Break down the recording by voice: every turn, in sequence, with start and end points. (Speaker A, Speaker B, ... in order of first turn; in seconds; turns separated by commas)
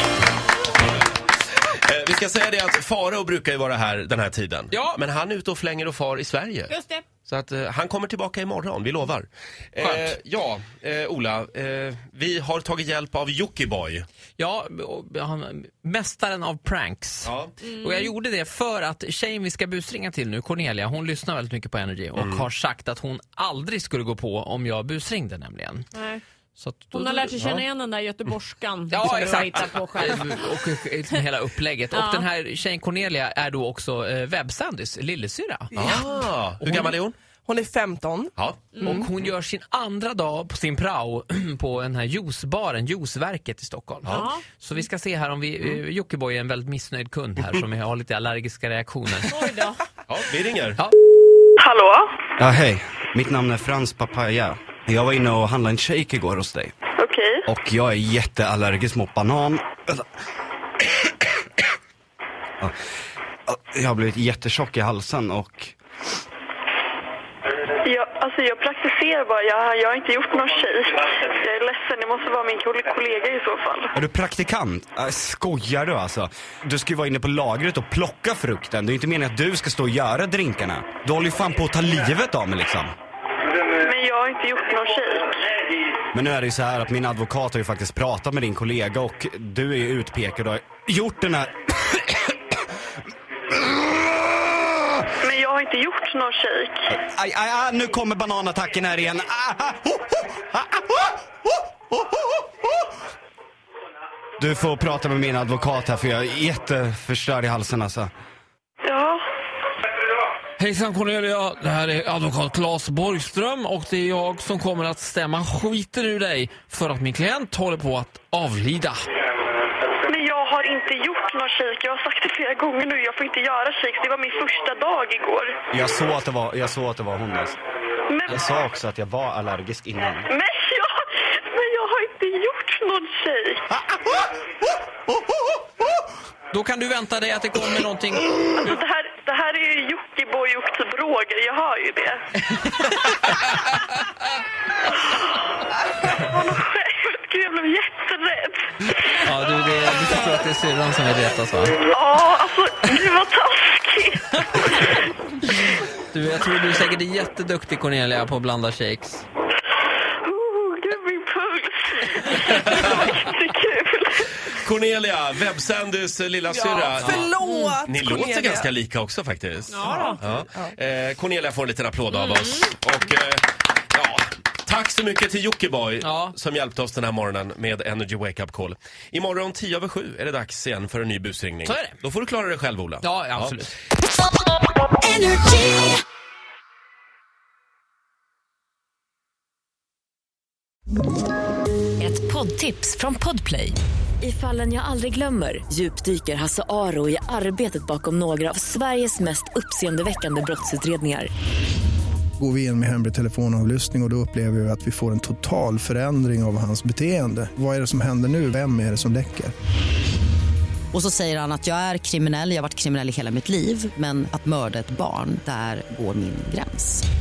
Speaker A: 1.6-14.0, Speaker B: 4.7-5.0, Speaker C: 6.7-7.0, Speaker B: 9.8-10.1, Speaker B: 14.4-25.9, Speaker A: 17.2-17.5, Speaker C: 17.6-18.0, Speaker A: 22.2-22.4, Speaker C: 25.9-26.2, Speaker B: 26.6-27.5, Speaker C: 26.9-30.2, Speaker A: 27.4-27.6, Speaker B: 28.9-35.7, Speaker C: 31.9-32.3, Speaker A: 35.8-37.1, Speaker D: 36.6-38.4, Speaker A: 38.4-38.8, Speaker B: 38.8-49.4, Speaker C: 49.3-49.8, Speaker A: 50.1-50.8, Speaker E: 51.6-52.1, Speaker F: 52.4-56.7, Speaker E: 57.0-57.4, Speaker F: 57.5-60.0, Speaker F: 63.5-65.8, Speaker E: 67.8-73.9, Speaker F: 73.9-82.9, Speaker E: 83.8-85.4, Speaker F: 86.1-92.4, Speaker F: 93.5-94.9, Speaker E: 95.2-96.9, Speaker F: 96.9-101.2, Speaker F: 101.9-102.3, Speaker F: 104.4-108.1, Speaker E: 108.8-109.2, Speaker B: 110.6-119.0, Speaker E: 120.0-125.6, Speaker F: 125.7-127.6, Speaker E: 128.1-128.4, Speaker F: 128.3-130.3, Speaker E: 130.3-133.8, Speaker B: 136.5-138.5, Speaker E: 138.5-142.2, Speaker B: 142.8-143.1, Speaker E: 146.2-149.0, Speaker B: 149.2-151.8, Speaker E: 151.9-154.9, Speaker B: 155.6-159.2, Speaker E: 160.2-164.3, Speaker A: 162.4-163.1, Speaker A: 164.5-167.3, Speaker D: 166.5-168.8, Speaker B: 167.0-167.8, Speaker A: 167.8-183.6, Speaker D: 169.9-170.7, Speaker B: 176.0-176.3, Speaker B: 181.7-182.0, Speaker B: 183.0-183.7, Speaker G: 185.1-185.9, Speaker G: 192.0-201.3, Speaker H: 202.4-209.5, Speaker I: 210.9-217.0